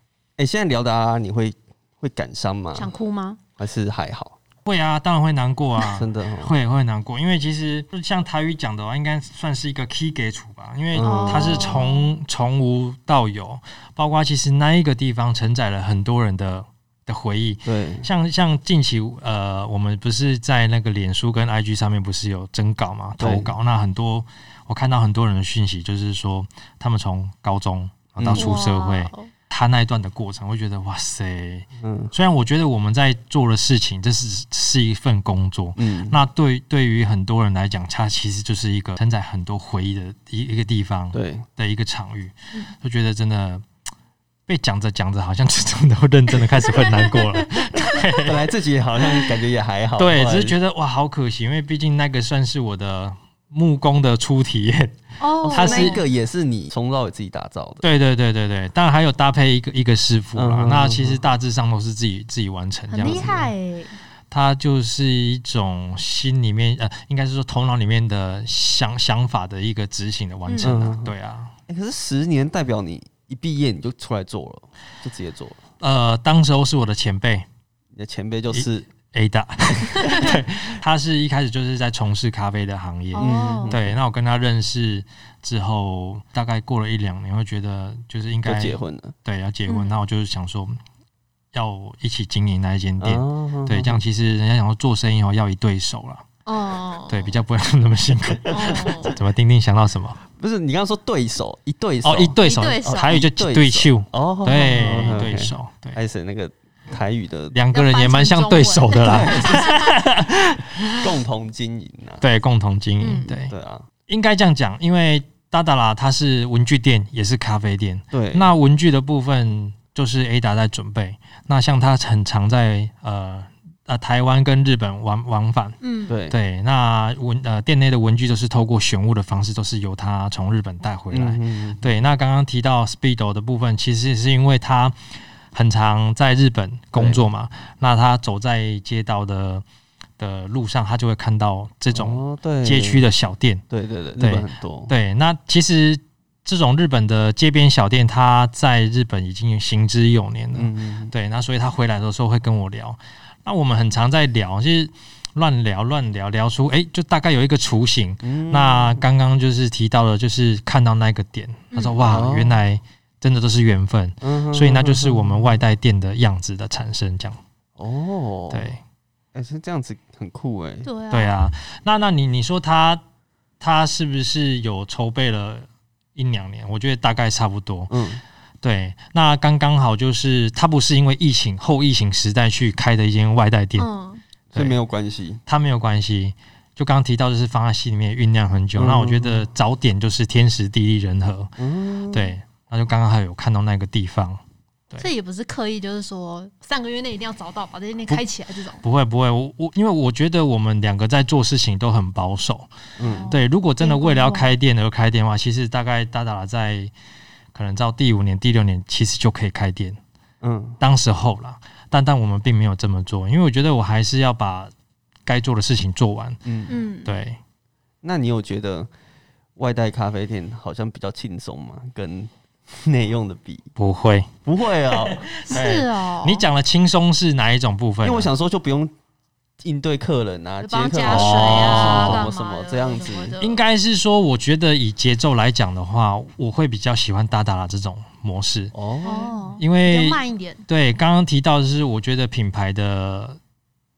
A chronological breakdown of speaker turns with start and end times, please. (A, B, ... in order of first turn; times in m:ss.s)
0:00.4-0:02.9 A
0:02.7-0:03.4 B
0:03.6-0:04.4 A
0:04.6-0:43.6 C
0:05.9-0:06.5 A
0:10.9-0:11.8 A
0:11.0-0:12.1 B
0:17.6-0:18.1 A
0:23.2-0:23.5 A
0:28.2-0:28.6 A
0:28.3-0:29.3 B
0:31.8-0:32.1 A
0:35.8-0:36.2 A
0:41.1-0:41.4 A
0:44.5-0:48.5 C
0:46.6-0:48.0 B
0:48.2-0:50.6 A
0:50.0-0:55.0 C
0:55.2-0:56.0 B
0:55.4-0:57.8 A
0:55.5-0:56.0 C
0:57.8-1:03.4 C
1:00.4-1:01.2 A
1:02.9-1:03.9 B
1:03.0-1:03.5 A
1:04.3-1:11.5 C
1:10.4-1:10.7 B
1:10.6-1:11.1 A
1:11.7-1:15.6 A
1:15.8-1:17.4 C
1:17.9-1:18.9 A
1:18.5-1:30.8 C
1:20.0-1:20.3 B
1:23.1-1:23.8 B
1:23.2-1:24.0 A
1:28.4-1:29.1 A
1:29.7-1:29.9 B
1:31.5-1:36.2 C
1:33.0-1:34.0 A
1:36.4-1:37.3 B
1:37.1-1:40.2 C
1:38.5-1:38.8 A
1:38.5-1:39.1 B
1:40.3-1:47.6 A
1:42.0-1:46.0 C
1:42.4-1:43.2 B
1:44.5-1:45.0 B
1:47.5-1:51.1 C
1:47.7-1:50.0 B
1:49.0-1:49.7 A
1:50.9-1:52.2 A
1:52.2-1:53.5 C
1:53.0-1:53.3 B
1:53.3-1:53.9 A
1:54.1-2:05.8 C
1:58.1-1:58.5 A
2:05.8-2:06.1 B
2:06.1-2:06.4 A
2:06.3-2:15.0 C
2:11.1-2:11.9 A
2:15.5-2:19.6 C
2:16.9-2:17.2 A
2:20.2-2:23.6 C
2:21.9-2:23.1 A
2:23.7-2:24.9 A
2:24.2-2:47.4 C
2:30.5-2:31.1 A
2:38.2-2:39.0 A
2:41.7-2:42.1 B
2:42.0-2:42.6 A
2:44.2-2:45.6 A
2:47.8-2:48.7 A
2:48.5-2:48.8 C
2:49.3-2:50.9 A
2:50.8-2:51.3 B
2:51.1-2:53.0 C
2:53.6-2:57.9 C
2:57.9-2:58.2 A
2:58.6-3:03.9 C
3:03.8-3:04.2 B
3:04.5-3:05.4 A
3:05.5-3:11.5 C
3:08.8-3:09.4 A
3:11.6-3:12.3 A
3:12.1-3:15.1 C
3:15.0-3:18.8 B
3:18.8-3:22.7 C
3:23.0-3:23.3 A
3:23.0-3:24.5 B
3:23.3-3:26.9 C
3:27.5-3:30.0 C
3:30.4-3:30.8 A
3:30.8-3:34.7 C
3:35.2-3:36.4 C
3:36.4-3:36.7 A
3:36.7-3:37.1 B
3:37.0-3:37.4 C
3:38.0-3:38.9 A
3:39.6-3:43.7 A
3:43.8-3:44.3 C
3:44.4-3:45.3 A
3:45.0-3:48.3 C
3:45.5-3:46.4 B
3:48.0-3:48.9 A
3:49.6-3:53.4 A
3:50.6-3:53.6 B
3:51.0-3:52.3 C
3:53.4-3:58.7 C
3:58.7-3:59.4 A
3:59.0-4:00.6 B
3:59.6-4:03.4 C